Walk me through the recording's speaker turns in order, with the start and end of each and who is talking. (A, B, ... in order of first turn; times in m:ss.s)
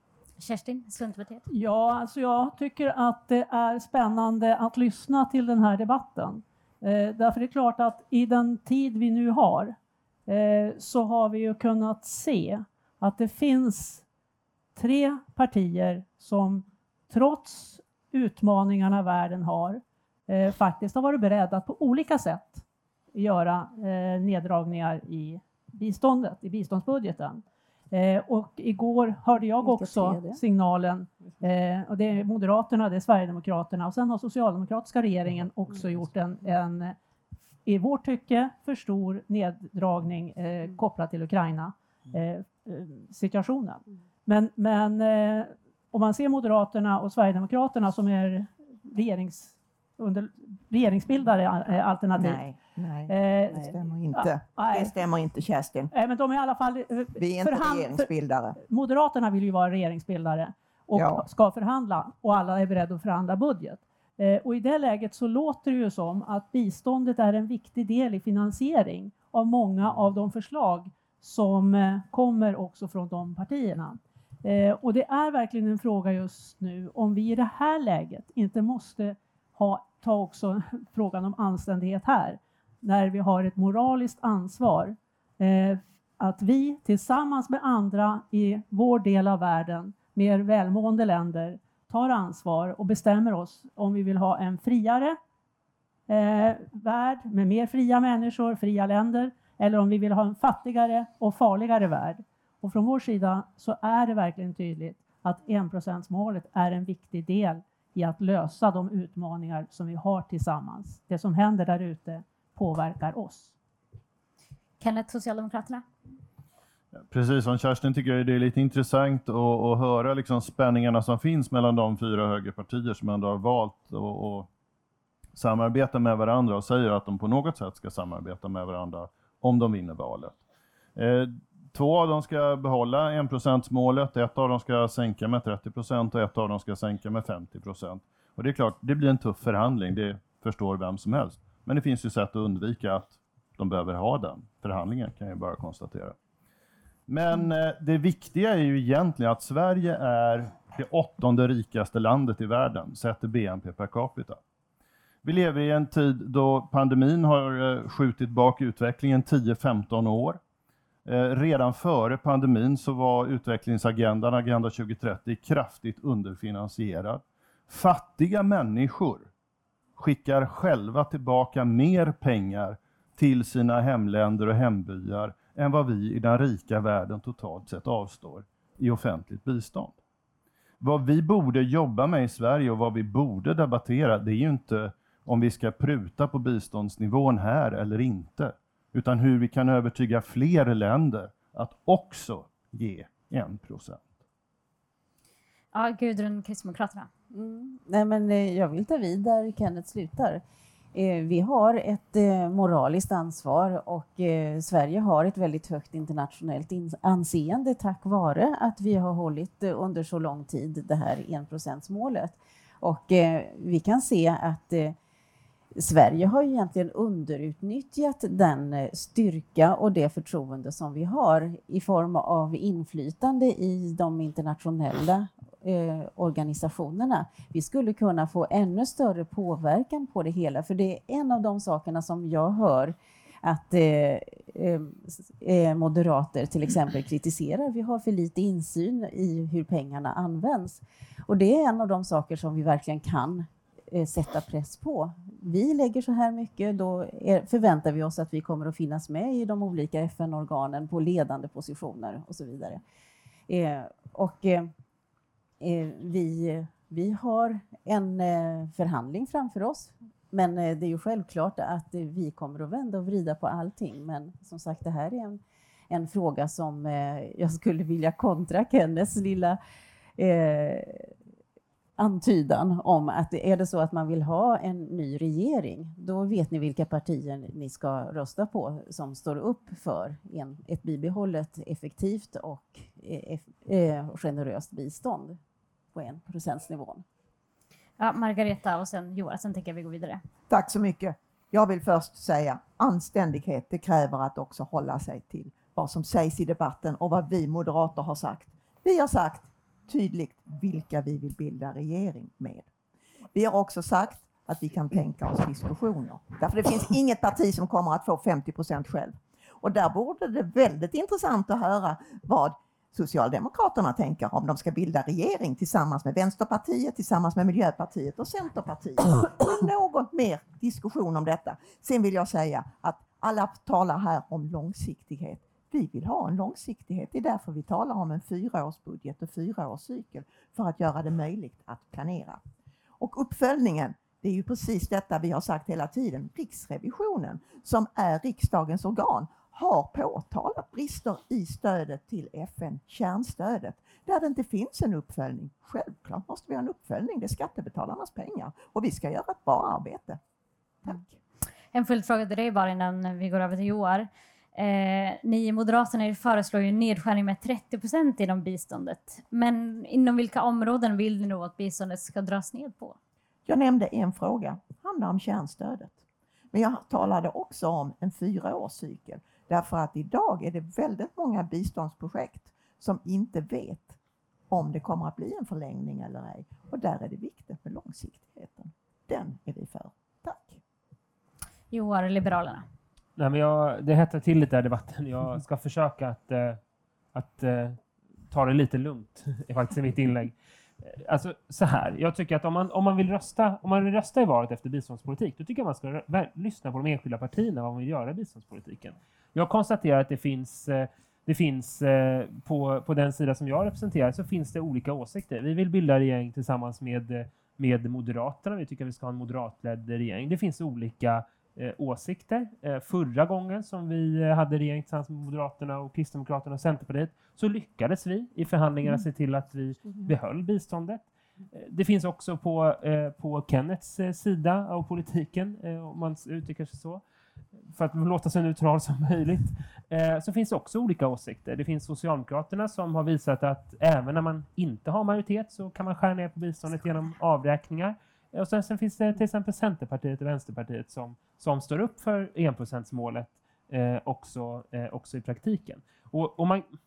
0:00.4-0:01.4 A
0:01.5-0:09.8 B
0:10.3-0:14.0 B
0:14.8-0:37.0 B
0:29.6-0:30.4 C
0:37.7-0:52.4 B
0:52.2-0:55.9 D
0:53.1-0:54.9 B
0:55.9-1:35.2 B
0:57.2-0:58.6 D
1:01.0-1:01.3 D
1:36.1-1:53.5 B
1:54.8-1:55.8 A
1:57.1-2:04.5 E
2:05.4-2:10.4 E
2:11.0-2:26.2 E
2:27.1-2:34.4 E
2:35.2-2:40.4 E
2:41.0-2:49.3 E
2:50.0-3:00.0 E
3:00.8-3:14.0 E
3:15.7-3:17.1 A
3:17.3-3:20.4 C
3:20.9-3:35.0 C
3:35.8-4:12.8 C
4:13.5-4:14.7 C
4:15.6-4:29.6 C
4:30.2-4:31.1 C
4:32.0-4:45.4 C
4:45.9-4:47.0 C
4:48.0-4:50.2 A
4:50.5-5:02.7 D
5:03.3-5:32.4 D
5:33.0-5:50.2 D
5:50.8-5:51.2 D
5:51.7-6:03.0 A
6:03.5-6:06.0 D
6:06.5-6:14.0 D
6:14.5-6:20.6 D
6:21.7-6:22.7 A
6:23.2-6:26.6 F
6:27.1-6:27.8 F
6:28.3-7:07.0 F
7:07.7-7:26.6 F